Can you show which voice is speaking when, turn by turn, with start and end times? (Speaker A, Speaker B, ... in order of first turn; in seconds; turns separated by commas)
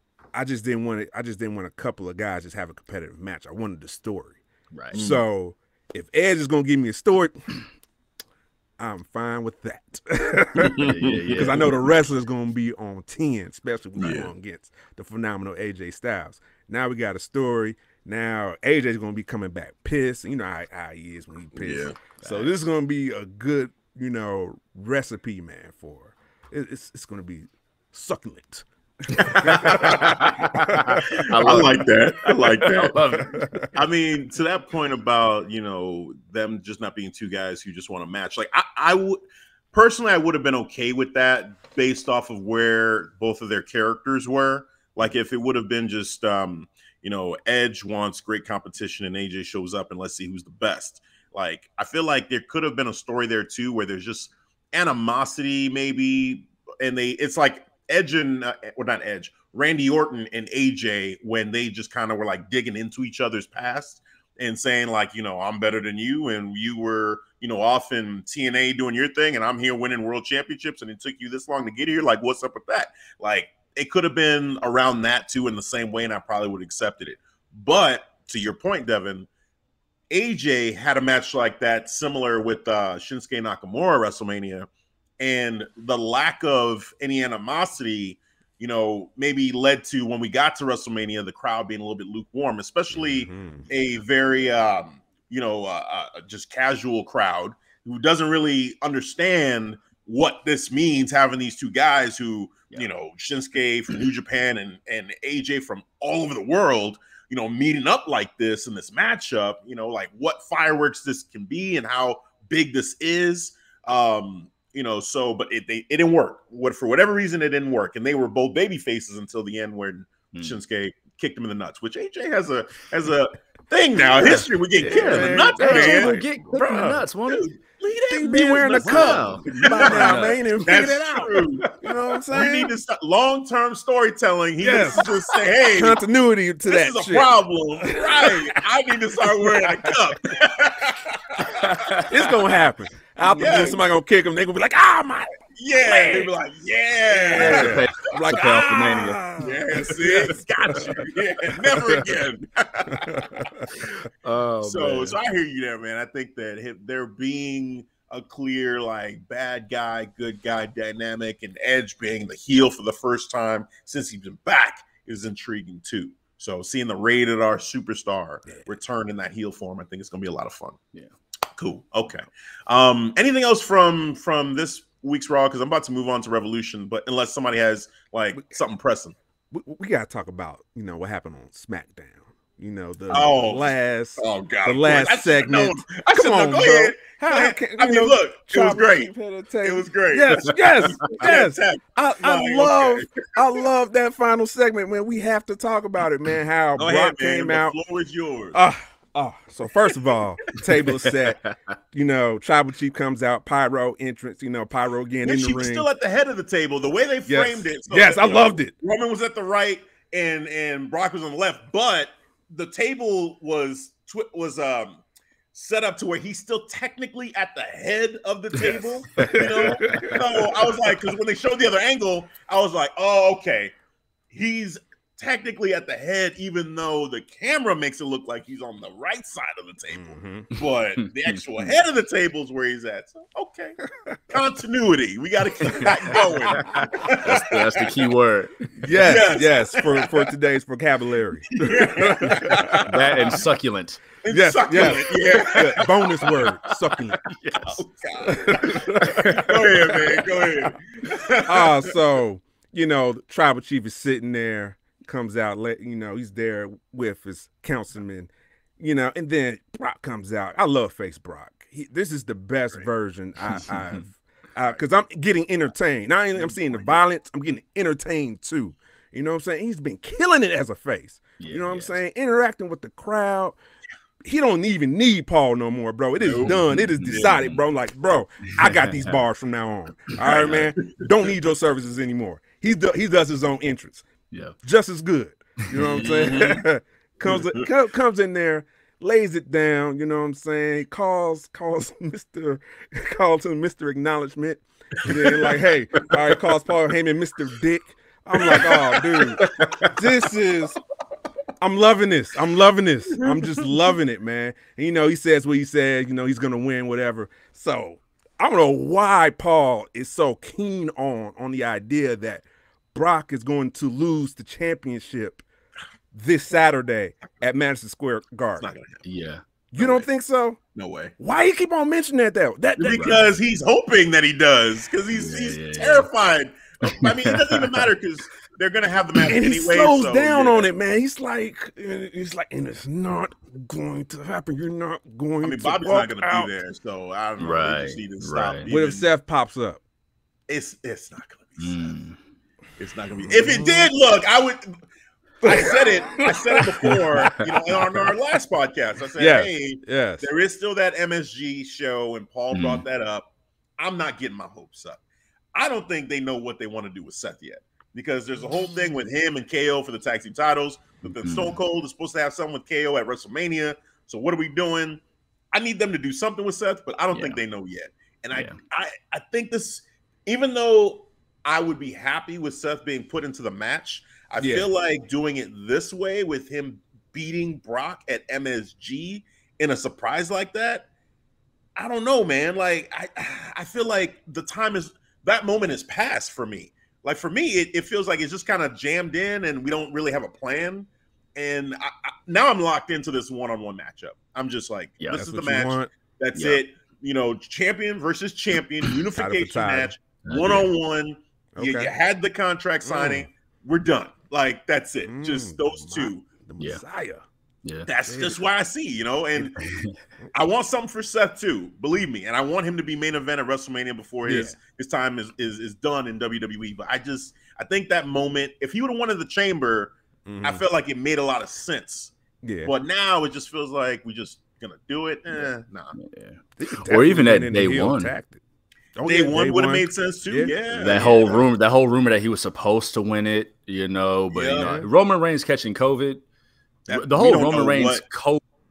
Speaker A: 0.3-4.4, Speaker A: 4.9-7.6, Speaker B: 4.9-5.2, Speaker A: 8.8-28.6, Speaker B: 10.6-11.2, Speaker C: 10.6-11.7, Speaker B: 14.0-14.3, Speaker B: 21.6-21.9, Speaker C: 22.2-22.5, Speaker B: 29.1-30.4, Speaker A: 29.2-31.1, Speaker C: 29.4-33.4, Speaker B: 31.1-33.0, Speaker A: 33.2-33.7, Speaker B: 33.7-39.2, Speaker B: 39.7-79.3, Speaker B: 80.1-84.7, Speaker B: 85.2-131.7, Speaker A: 92.9-93.7, Speaker C: 120.3-120.6, Speaker C: 124.2-127.4, Speaker A: 124.9-127.0, Speaker A: 128.1-132.7, Speaker C: 128.6-130.4, Speaker C: 131.6-131.9, Speaker B: 132.3-136.0, Speaker A: 134.6-135.1, Speaker A: 135.7-138.6, Speaker B: 136.7-142.0, Speaker C: 141.4-142.3, Speaker A: 142.0-146.3, Speaker B: 143.3-143.8, Speaker B: 145.6-148.8, Speaker A: 147.1-152.2, Speaker C: 147.3-149.2, Speaker B: 149.4-153.9, Speaker A: 152.9-153.7, Speaker C: 154.2-155.2, Speaker B: 154.6-170.8, Speaker B: 171.6-179.2, Speaker A: 179.5-197.7, Speaker B: 183.1-193.5, Speaker B: 196.8-198.6, Speaker A: 198.5-201.4, Speaker C: 201.1-201.5, Speaker A: 201.9-205.9, Speaker B: 205.2-215.0, Speaker A: 207.3-208.7, Speaker B: 215.5-223.7, Speaker C: 218.7-220.1, Speaker A: 219.2-220.6, Speaker B: 224.3-237.9, Speaker A: 229.9-230.5, Speaker C: 231.0-231.7, Speaker A: 235.8-236.7, Speaker C: 236.1-238.7, Speaker A: 238.8-242.8, Speaker B: 238.9-240.3, Speaker B: 241.5-243.3, Speaker C: 242.8-244.0, Speaker B: 244.2-246.2, Speaker A: 244.3-247.3, Speaker C: 247.2-247.8, Speaker B: 247.6-251.9, Speaker A: 248.3-250.0, Speaker C: 248.9-250.0, Speaker A: 251.4-273.6, Speaker C: 263.5-264.0, Speaker B: 266.4-266.9, Speaker C: 271.4-272.0, Speaker A: 274.2-284.0, Speaker B: 276.2-276.6, Speaker C: 276.4-277.6, Speaker B: 277.1-277.4, Speaker C: 278.5-279.2, Speaker C: 280.2-280.7, Speaker B: 280.3-281.0, Speaker A: 284.6-300.8, Speaker C: 285.8-286.4, Speaker B: 285.9-286.6, Speaker B: 287.2-287.7, Speaker B: 295.1-295.6, Speaker B: 298.4-299.2, Speaker C: 299.4-299.9, Speaker A: 301.6-315.4, Speaker A: 316.1-318.7, Speaker B: 318.6-319.0, Speaker C: 319.0-319.4, Speaker A: 319.7-320.6, Speaker B: 319.8-320.1, Speaker B: 320.7-321.1, Speaker A: 321.2-323.4, Speaker B: 322.8-330.7, Speaker C: 325.1-326.1, Speaker C: 326.8-327.9, Speaker A: 329.2-336.5, Speaker B: 335.4-339.1, Speaker C: 337.4-338.7, Speaker A: 338.7-339.8, Speaker B: 340.5-341.9, Speaker C: 341.6-342.2, Speaker B: 342.8-344.7, Speaker A: 343.2-343.9, Speaker A: 345.4-347.3, Speaker B: 345.4-355.0, Speaker A: 349.2-350.3, Speaker C: 352.5-352.8, Speaker B: 355.5-365.0, Speaker C: 361.1-361.6, Speaker B: 365.5-380.9, Speaker C: 367.1-367.4, Speaker A: 374.4-374.7, Speaker B: 381.8-406.2, Speaker C: 395.0-395.2, Speaker A: 395.2-395.9, Speaker C: 396.3-396.6, Speaker A: 399.1-399.9, Speaker C: 400.2-400.7, Speaker A: 401.5-401.9, Speaker A: 402.8-403.3, Speaker A: 405.0-407.2, Speaker B: 407.9-409.6, Speaker A: 408.1-408.4, Speaker C: 409.6-410.0, Speaker B: 410.3-425.9, Speaker A: 414.2-414.6, Speaker A: 420.2-420.6, Speaker A: 422.4-422.7, Speaker C: 425.9-428.1, Speaker A: 426.6-428.4, Speaker A: 428.9-431.0, Speaker B: 429.0-431.5, Speaker C: 430.8-436.2, Speaker B: 434.3-434.8, Speaker A: 434.6-434.9, Speaker B: 436.9-438.0, Speaker C: 436.9-438.4